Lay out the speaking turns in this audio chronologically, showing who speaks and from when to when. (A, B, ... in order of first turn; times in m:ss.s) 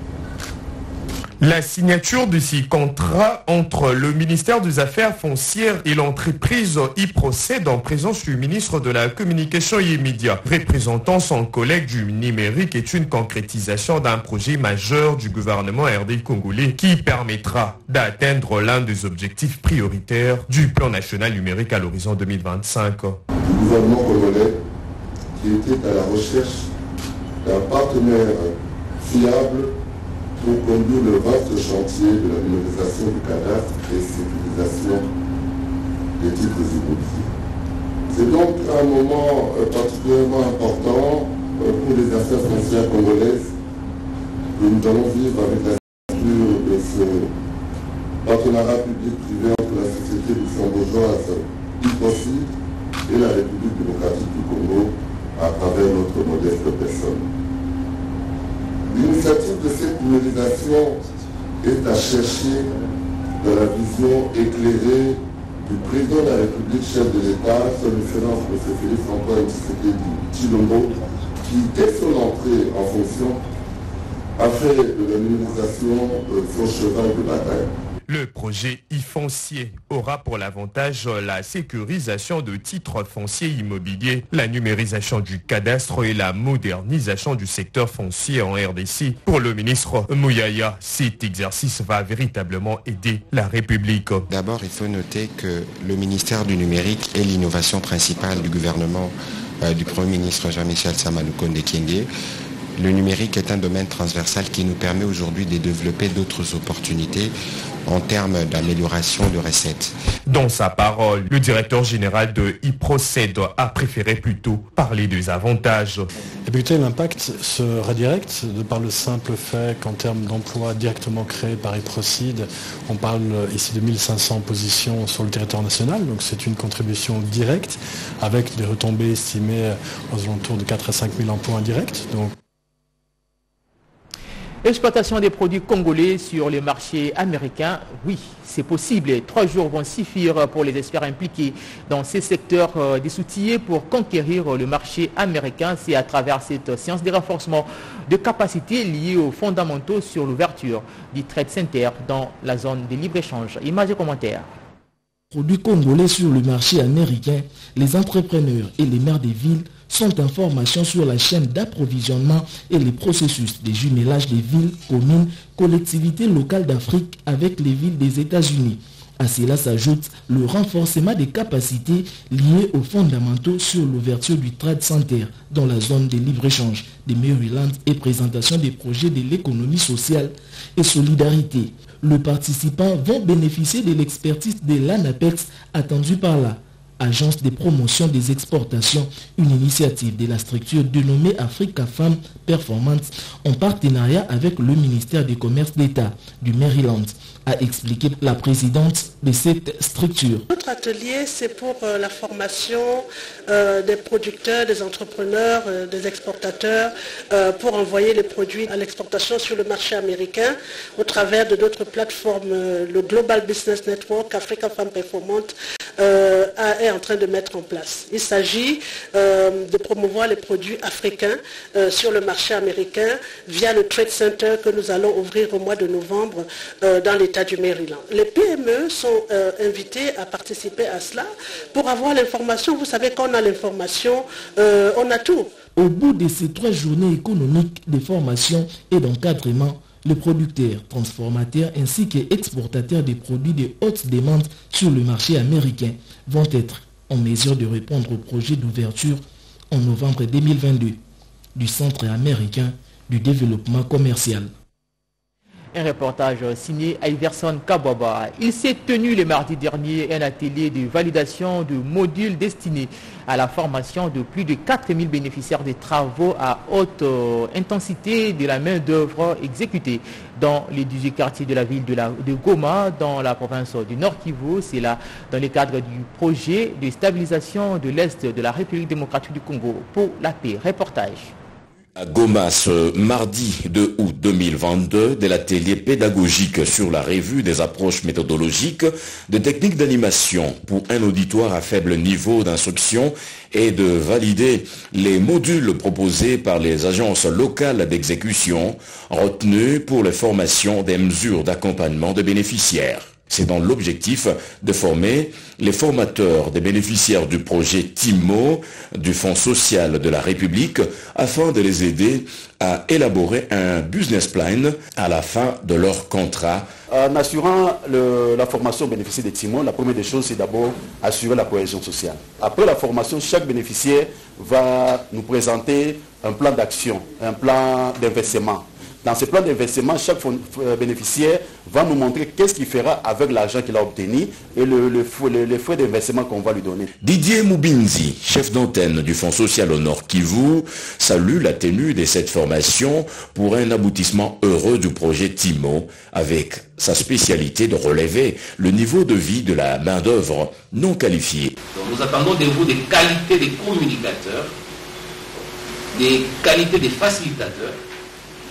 0:01.4-0:23.2 A
0:23.4-0:24.6 B
0:25.4-0:26.7 B
0:27.4-0:29.7 B
0:30.4-0:35.1 B
0:36.2-0:37.3 B
0:38.1-0:43.5 B
0:44.5-0:47.3 B
0:48.2-0:52.5 B
0:53.1-0:57.3 B
0:58.9-1:01.0 B
1:01.6-1:02.7 B
1:03.4-1:13.4 B
1:14.4-1:17.7 B
1:18.1-1:34.3 A
1:34.3-1:42.1 C
1:42.8-1:47.3 C
1:47.8-1:49.9 C
1:50.3-1:56.1 A
1:56.4-2:12.3 D
2:14.6-2:34.5 E
2:35.3-3:20.4 F
3:20.5-3:55.5 G
3:55.8-4:11.0 F
4:11.6-4:14.5 F
4:15.7-4:41.3 E
4:42.0-5:16.7 H
5:16.9-5:36.9 I
5:37.0-5:51.6 H
5:51.7-5:54.5 J
5:55.9-5:57.8 J